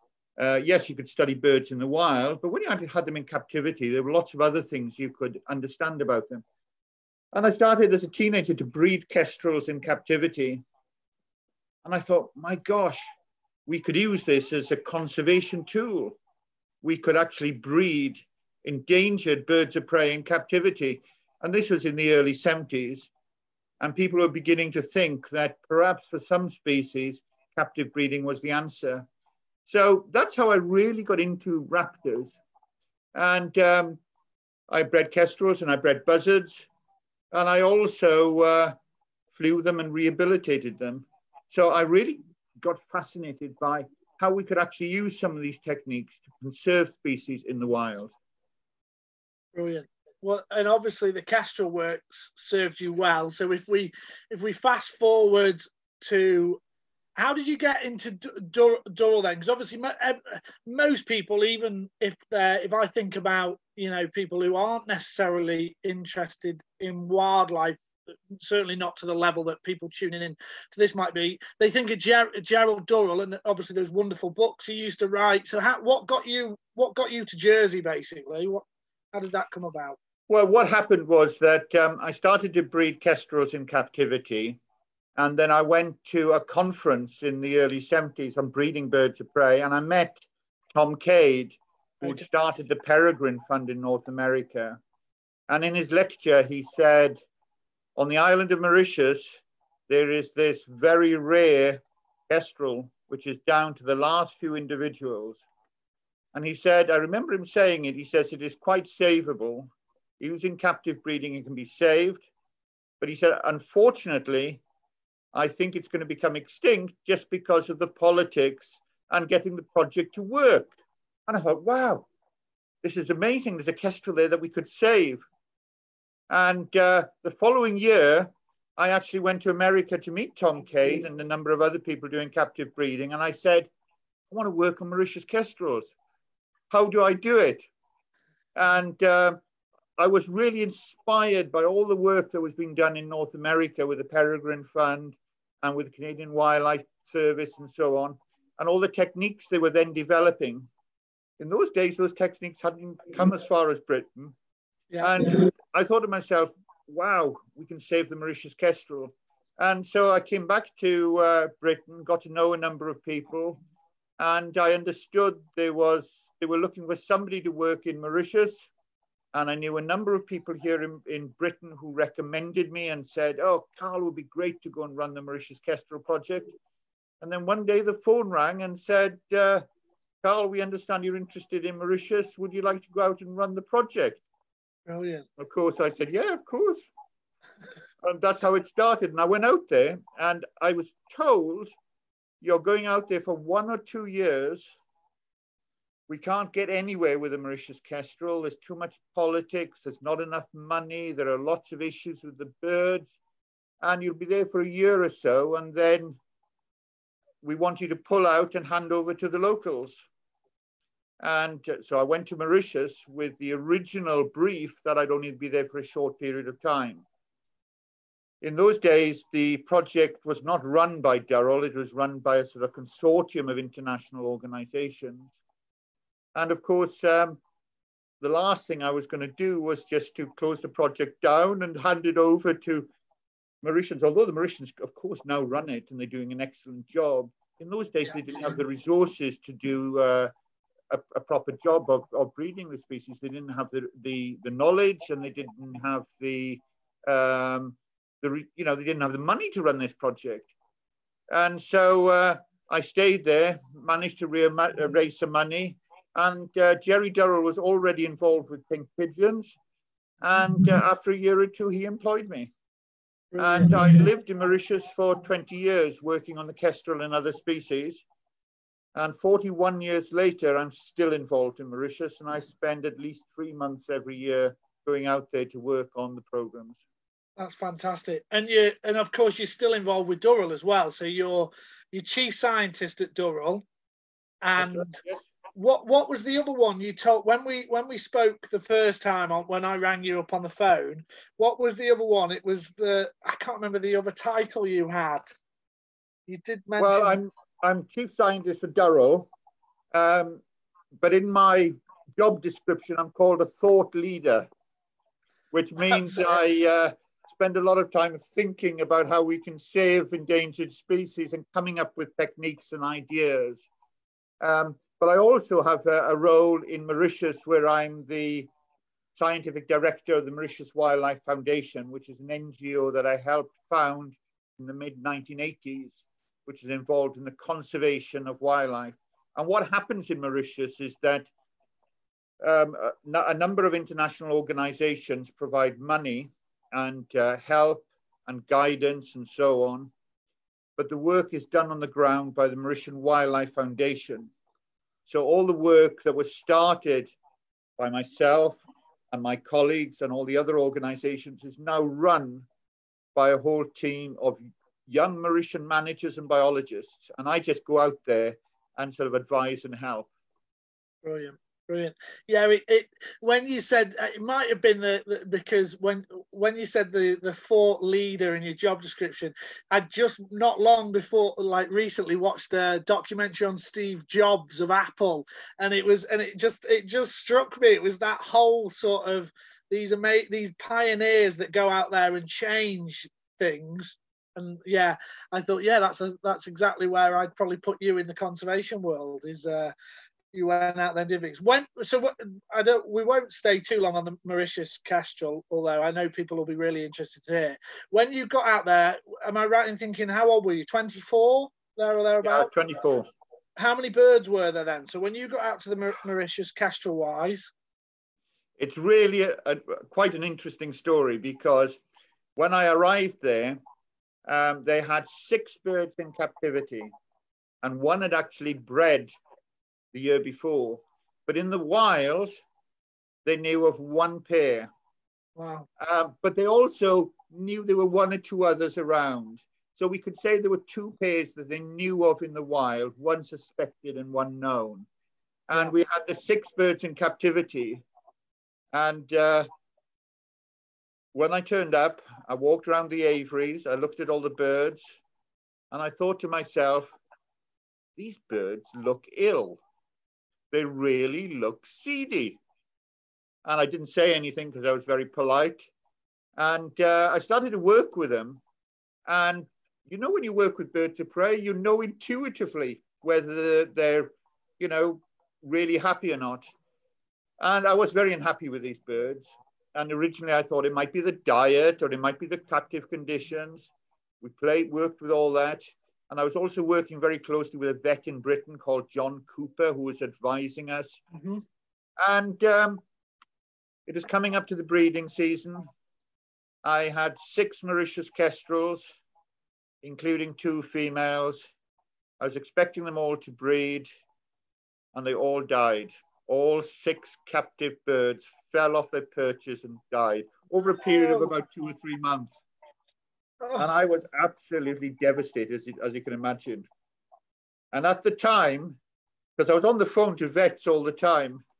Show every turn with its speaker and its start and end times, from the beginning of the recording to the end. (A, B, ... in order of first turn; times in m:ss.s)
0:00.4-0:06.4 A
0:07.3-0:10.6 A
0:11.8-0:13.0 A
0:13.7-0:16.2 A
0:16.8-0:23.1 A
0:23.8-0:29.1 A
0:29.7-0:32.4 A
0:33.2-0:34.0 A
0:34.7-0:36.7 A
0:37.3-0:38.8 A
0:39.3-0:48.1 A
0:49.6-0:56.6 B
0:57.2-1:07.8 B
1:08.3-1:20.0 B
1:20.3-1:24.6 A
1:25.2-1:30.2 A
1:30.7-1:34.8 A
1:35.5-1:37.2 A
1:38.0-1:45.4 A
1:46.3-1:52.3 A
1:53.0-1:54.6 A
1:55.3-2:00.8 A
2:01.3-2:02.1 A
2:02.8-2:05.3 A
2:06.3-2:13.7 A
2:14.3-2:15.9 A
2:16.7-2:17.7 A
2:18.6-2:19.4 A
2:20.0-2:30.7 A
2:31.4-2:34.4 A
2:34.9-2:35.4 B
2:35.0-2:43.6 A
2:44.2-2:48.7 A
2:49.3-2:56.6 A
2:57.2-2:59.6 A
3:00.2-3:04.2 A
3:04.9-3:05.2 B
3:05.4-3:06.9 A
3:08.0-3:11.7 A
3:12.4-3:14.7 A
3:16.1-3:23.2 A
3:23.8-3:26.2 A
3:27.4-3:30.0 A
3:31.2-3:37.0 A
3:38.4-3:45.4 A
3:46.4-3:47.4 A
3:48.2-3:52.9 A
3:53.6-4:00.3 A
4:00.9-4:10.5 A
4:11.3-4:19.6 A
4:20.2-4:22.5 A
4:23.3-4:23.8 B
4:23.4-4:28.0 A
4:29.0-4:36.8 A
4:37.4-4:43.6 B
4:44.4-4:45.0 B
4:44.6-4:45.3 A
4:45.6-4:55.3 B
4:56.3-4:57.2 B
4:56.8-4:59.3 A
4:59.9-5:00.4 A
5:01.0-5:04.5 A
5:05.5-5:13.7 A
5:05.9-5:06.3 B
5:14.4-5:18.5 A
5:19.2-5:31.3 A
5:32.4-5:39.9 A
5:40.8-5:44.3 A
5:45.1-5:47.1 A
5:47.8-5:52.5 A
5:53.2-6:00.1 A
6:01.0-6:29.7 B
6:30.3-6:42.5 B
6:42.2-6:43.1 A
6:43.6-6:47.5 B
6:48.6-6:51.8 A
6:52.4-6:53.6 A
6:54.3-6:56.9 A
6:57.6-6:59.1 A
6:59.9-7:02.3 A
7:03.2-7:04.7 A
7:05.4-7:05.7 B
7:05.8-7:14.9 A
7:15.5-7:17.8 A
7:18.7-7:19.5 A
7:21.1-7:25.0 A
7:25.7-7:27.0 A
7:28.0-7:29.6 A
7:30.5-7:32.4 A
7:33.4-7:35.7 A
7:36.4-7:38.4 A
7:39.1-7:46.5 A
7:47.4-7:53.7 A
7:54.2-8:01.0 A
8:01.1-8:01.4 B
8:02.0-8:02.8 A
8:03.9-8:05.7 A
8:06.6-8:08.9 A
8:09.8-8:11.5 A
8:12.2-8:13.9 A
8:14.9-8:22.4 A
8:20.9-8:21.3 B
8:23.6-8:26.7 A
8:27.7-8:28.8 A
8:29.4-8:31.4 A